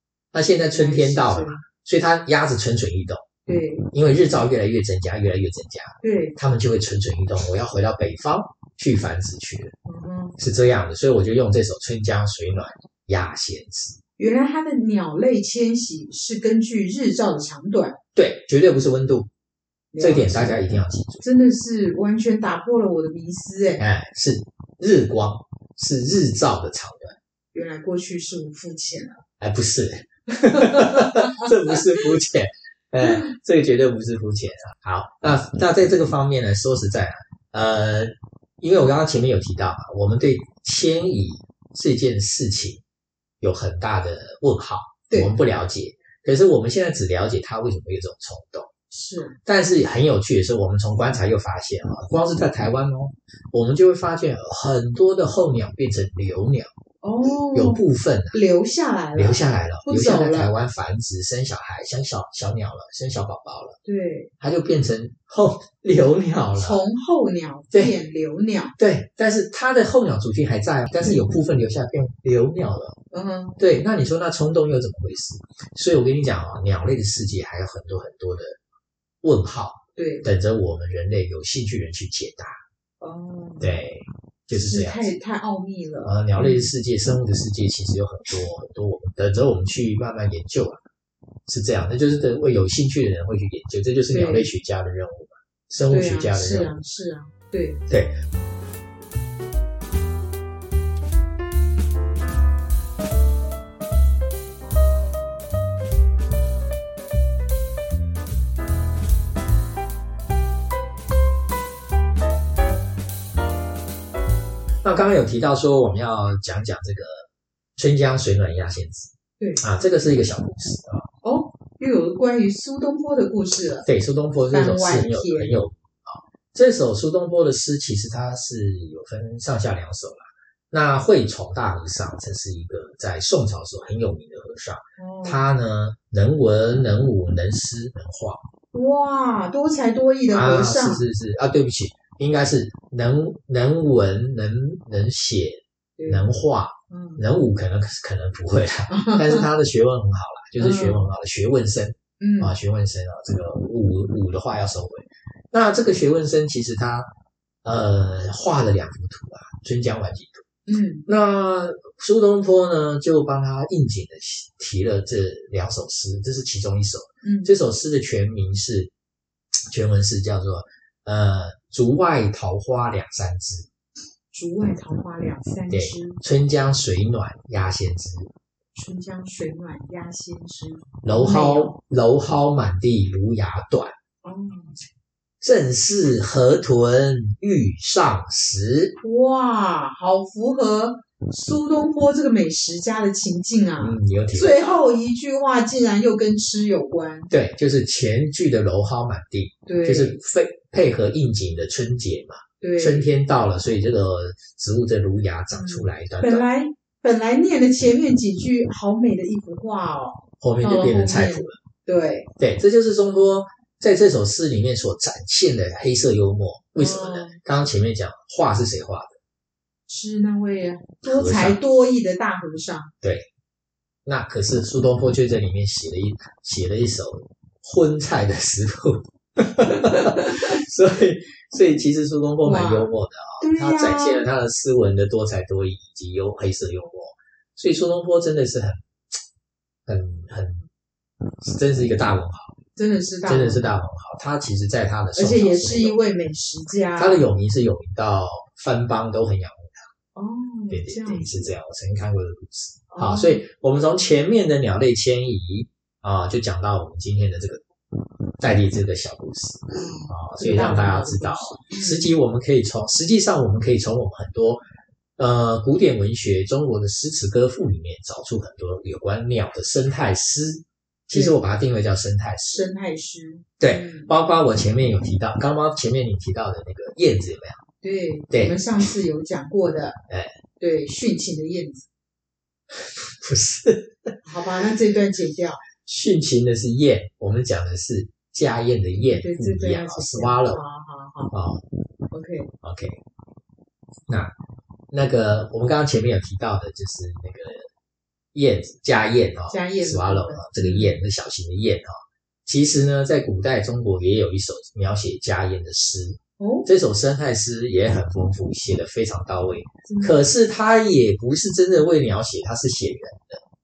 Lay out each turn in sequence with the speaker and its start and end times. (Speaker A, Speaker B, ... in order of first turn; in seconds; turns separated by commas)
Speaker A: 0.3-3.2, Speaker B: 0.7-1.6, Speaker B: 3.5-3.9, Speaker A: 3.9-9.7, Speaker B: 6.0-6.3, Speaker B: 9.8-10.4, Speaker A: 10.4-14.0, Speaker B: 14.2-17.9, Speaker A: 18.1-19.3, Speaker B: 19.9-20.6, Speaker A: 20.0-21.2, Speaker B: 21.2-23.8, Speaker A: 23.8-27.1, Speaker B: 27.5-29.2, Speaker A: 29.4-42.8, Speaker B: 30.6-31.3, Speaker A: 43.4-48.7, Speaker B: 45.1-45.4, Speaker B: 48.9-49.4, Speaker A: 49.4-56.7, Speaker B: 57.0-60.5, Speaker A: 57.5-58.4, Speaker A: 59.1-63.8, Speaker B: 63.8-64.3, Speaker A: 64.4-66.8, Speaker B: 66.5-68.7, Speaker A: 68.8-73.0, Speaker B: 73.1-73.6, Speaker A: 73.6-78.6, Speaker A: 79.2-82.6, Speaker B: 80.0-80.3, Speaker B: 83.0-83.8, Speaker A: 83.6-85.1, Speaker B: 84.5-86.7, Speaker A: 86.0-90.8, Speaker A: 91.5-96.8, Speaker B: 94.1-94.5, Speaker B: 95.9-97.8, Speaker A: 114.8-117.2, Speaker A: 117.8-121.1, Speaker B: 121.2-123.9, Speaker A: 123.8-138.4, Speaker B: 124.4-125.6, Speaker B: 135.0-135.5, Speaker B: 138.7-141.0, Speaker A: 140.3-157.1, Speaker B: 146.0-146.2, Speaker B: 146.9-147.2, Speaker B: 148.9-149.5, Speaker B: 150.6-151.1, Speaker B: 152.2-152.6, Speaker A: 157.6-160.4, Speaker B: 160.7-161.1, Speaker A: 161.1-168.9, Speaker B: 167.2-167.5, Speaker A: 169.7-173.7, Speaker B: 174.3-176.2, Speaker A: 175.7-178.3, Speaker B: 178.7-181.8, Speaker A: 181.0-183.9, Speaker B: 184.2-184.8, Speaker A: 185.4-188.9, Speaker B: 189.0-197.3, Speaker A: 193.8-194.7, Speaker A: 197.3-206.4, Speaker B: 199.7-200.2, Speaker B: 202.6-203.1, Speaker B: 205.5-212.3, Speaker A: 210.4-211.6, Speaker A: 212.4-219.2, Speaker B: 216.8-217.4, Speaker B: 219.9-222.9, Speaker A: 221.0-221.6, Speaker A: 224.0-238.8, Speaker B: 232.4-234.3, Speaker A: 239.8-240.7, Speaker A: 241.4-242.6, Speaker B: 242.8-243.7, Speaker A: 243.2-245.9, Speaker B: 245.1-247.2, Speaker A: 246.9-249.9, Speaker B: 250.1-251.5, Speaker A: 250.7-257.6, Speaker B: 252.9-253.4, Speaker A: 258.4-264.6, Speaker B: 259.7-262.1, Speaker A: 265.2-272.6, Speaker B: 271.1-271.4, Speaker B: 272.5-274.1, Speaker A: 273.6-277.6, Speaker B: 277.8-280.0, Speaker A: 278.3-278.6, Speaker B: 280.6-281.9, Speaker A: 282.7-284.1, Speaker B: 284.2-285.6, Speaker A: 285.8-290.6, Speaker B: 289.0-291.3, Speaker A: 291.3-291.6, Speaker B: 292.1-292.5, Speaker A: 292.6-293.0, Speaker A: 294.1-294.3, Speaker A: 294.9-297.7, Speaker A: 298.3-301.9, Speaker B: 299.5-301.0, Speaker A: 302.4-313.4, Speaker B: 306.4-306.7, Speaker B: 309.8-310.3